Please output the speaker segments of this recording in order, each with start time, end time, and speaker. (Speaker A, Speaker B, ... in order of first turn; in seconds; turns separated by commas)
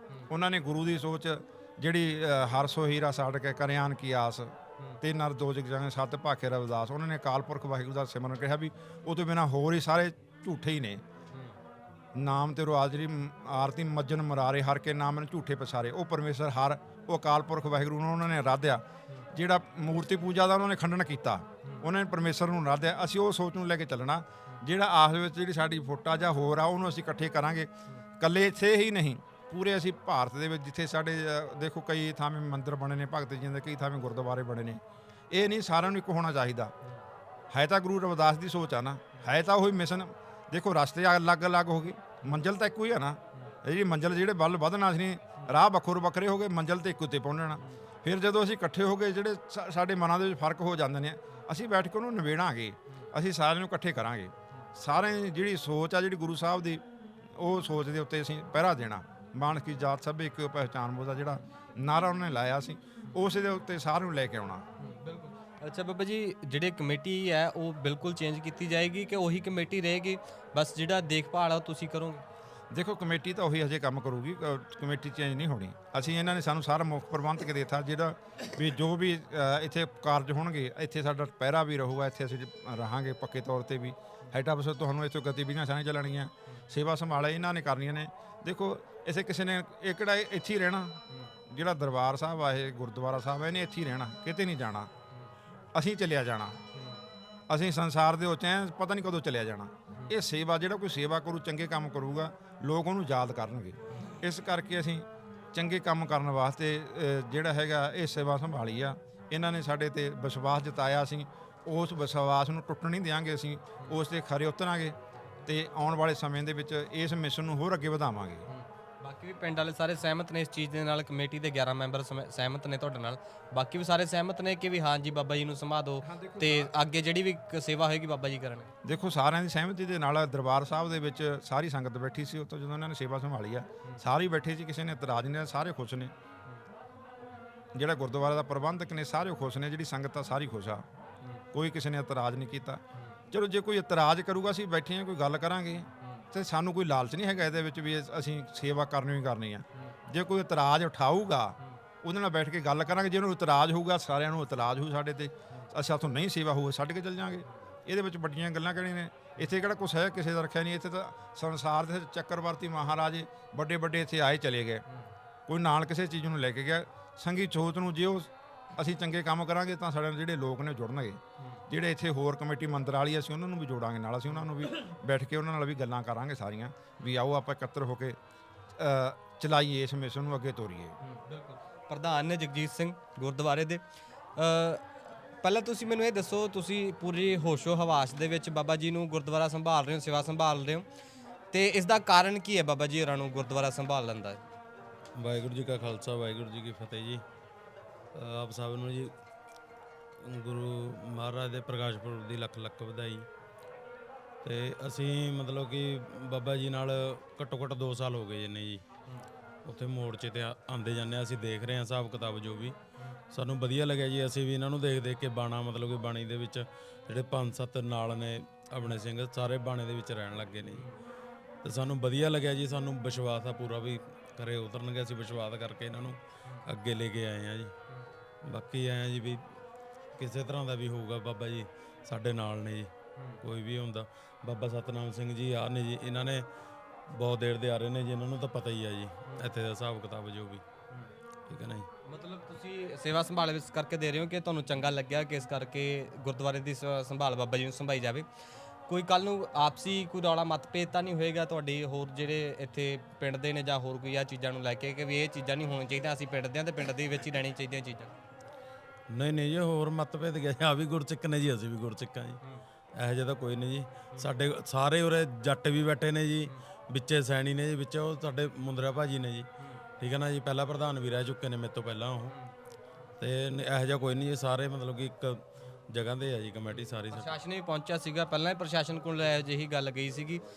Speaker A: 0.3-11.0, Speaker A: 12.2-36.7, Speaker A: 37.5-56.8, Speaker A: 57.3-64.6, Speaker B: 64.8-72.2, Speaker A: 72.7-94.9, Speaker A: 95.7-96.6, Speaker B: 96.7-97.0, Speaker A: 97.5-118.4, Speaker B: 118.5-128.7, Speaker A: 126.0-126.7, Speaker A: 128.8-136.1, Speaker A: 137.7-140.8, Speaker A: 141.5-164.8, Speaker A: 165.5-178.2, Speaker A: 178.8-180.9, Speaker B: 181.0-183.8, Speaker B: 184.3-184.8, Speaker B: 185.4-190.8, Speaker B: 191.5-194.4, Speaker C: 195.2-197.2, Speaker C: 198.2-199.1, Speaker C: 200.2-203.3, Speaker C: 204.4-208.8, Speaker C: 209.7-212.8, Speaker C: 213.3-220.9, Speaker C: 221.6-227.7, Speaker C: 228.4-229.4, Speaker C: 230.2-232.9, Speaker C: 233.4-236.4, Speaker C: 237.1-240.6, Speaker B: 239.2-239.5, Speaker C: 241.5-241.9, Speaker B: 242.1-248.2, Speaker B: 248.9-258.1, Speaker C: 259.1-262.4, Speaker C: 262.9-269.5, Speaker C: 270.0-272.3, Speaker C: 273.2-277.3, Speaker B: 276.7-280.4